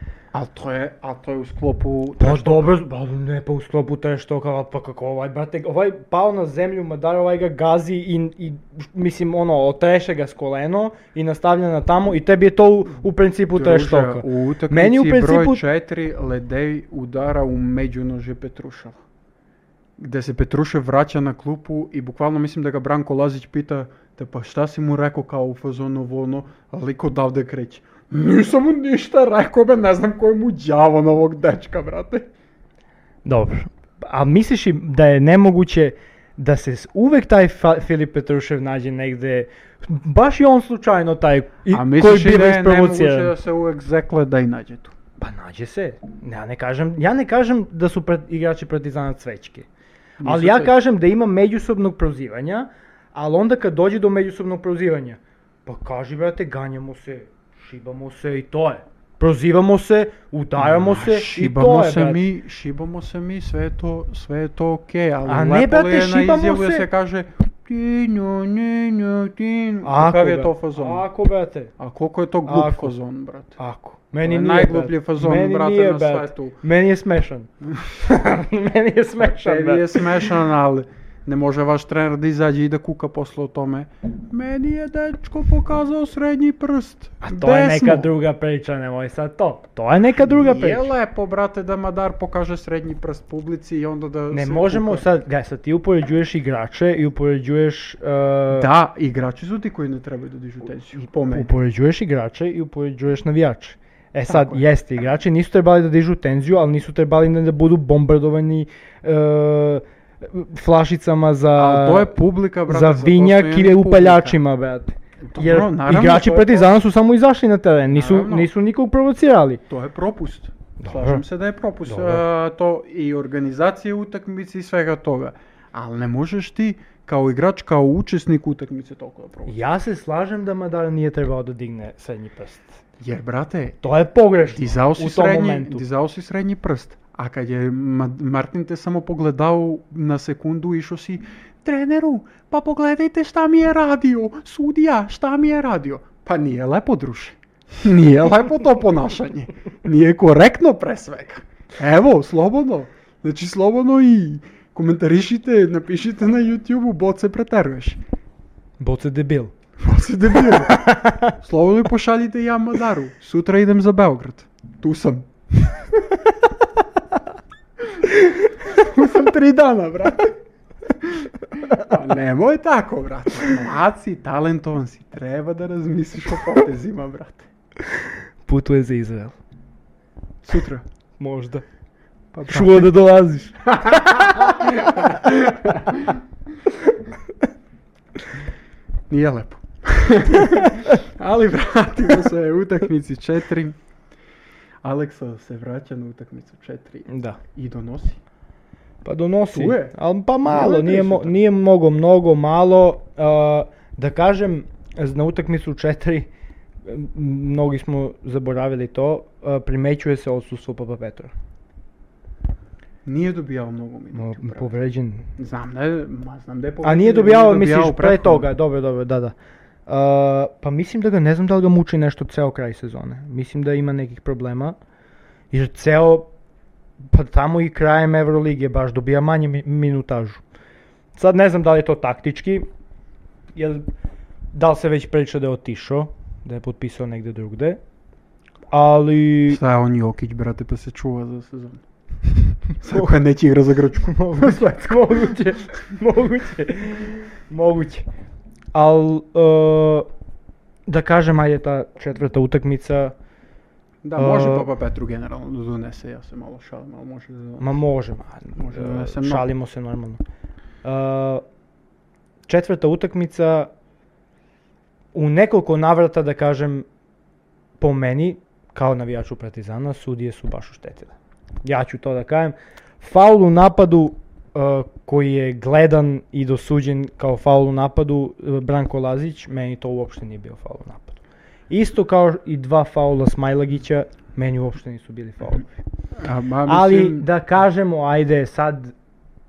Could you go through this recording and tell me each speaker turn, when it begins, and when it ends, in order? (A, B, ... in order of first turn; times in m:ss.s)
0:00.3-0:02.8 A
0:02.2-0:15.6 B
0:13.5-0:19.0 A
0:20.0-0:32.3 A
0:33.2-0:43.3 B
0:41.7-0:45.0 A
0:45.2-0:49.7 B
0:50.2-0:50.8 A
0:50.2-1:02.3 B
1:00.6-1:11.0 A
1:05.3-1:06.9 B
1:09.8-1:11.7 B
1:11.8-1:13.6 A
1:12.5-1:12.9 B
1:13.6-1:20.3 B
1:14.2-1:16.6 A
1:19.2-1:28.1 A
1:27.2-1:30.9 B
1:30.2-1:35.0 A
1:34.3-1:38.7 B
1:38.5-1:41.5 A
1:41.3-1:59.6 B
1:44.3-1:44.6 A
1:51.6-1:54.4 A
1:55.3-1:56.8 A
1:57.9-1:58.5 A
1:59.7-2:09.6 A
2:00.8-2:01.2 B
2:01.9-2:02.2 B
2:09.5-2:12.8 B
2:13.0-2:13.8 A
2:13.8-2:15.8 B
2:14.5-2:38.0 A
2:38.8-2:39.5 B
2:39.8-2:46.0 A
2:40.5-2:41.3 B
2:47.9-2:50.4 A
2:51.0-2:57.5 A
2:57.8-2:59.4 B
3:00.4-3:00.8 A
3:01.2-3:01.6 B
3:02.3-3:02.9 A
3:02.5-3:05.1 B
3:03.7-3:06.1 A
3:09.1-3:13.8 A
3:14.8-3:18.2 A
3:17.1-3:17.4 B
3:19.0-3:26.3 B
3:19.5-3:19.9 A
3:20.4-3:21.4 A
3:26.8-3:31.3 B
3:33.0-3:34.8 A
3:34.1-3:35.3 B
3:35.4-3:38.5 A
3:36.8-3:39.4 B
3:39.9-3:44.8 B
3:45.5-3:46.3 B
3:47.1-3:50.4 B
3:51.1-3:52.7 B
3:53.6-3:53.9 B
3:54.5-3:57.8 B
3:58.7-3:59.6 B
3:59.5-4:01.8 A
4:02.8-4:05.4 A
4:04.1-4:08.1 B
4:08.7-4:10.1 B
4:10.9-4:13.1 B
4:14.0-4:17.8 A
4:14.2-4:14.7 B
4:17.6-4:20.2 B
4:18.6-4:19.5 A
4:20.8-4:21.4 B
4:22.5-4:23.7 B
4:25.1-4:26.9 B
4:27.8-4:45.7 B
4:46.1-4:47.3 A
4:46.6-4:48.9 B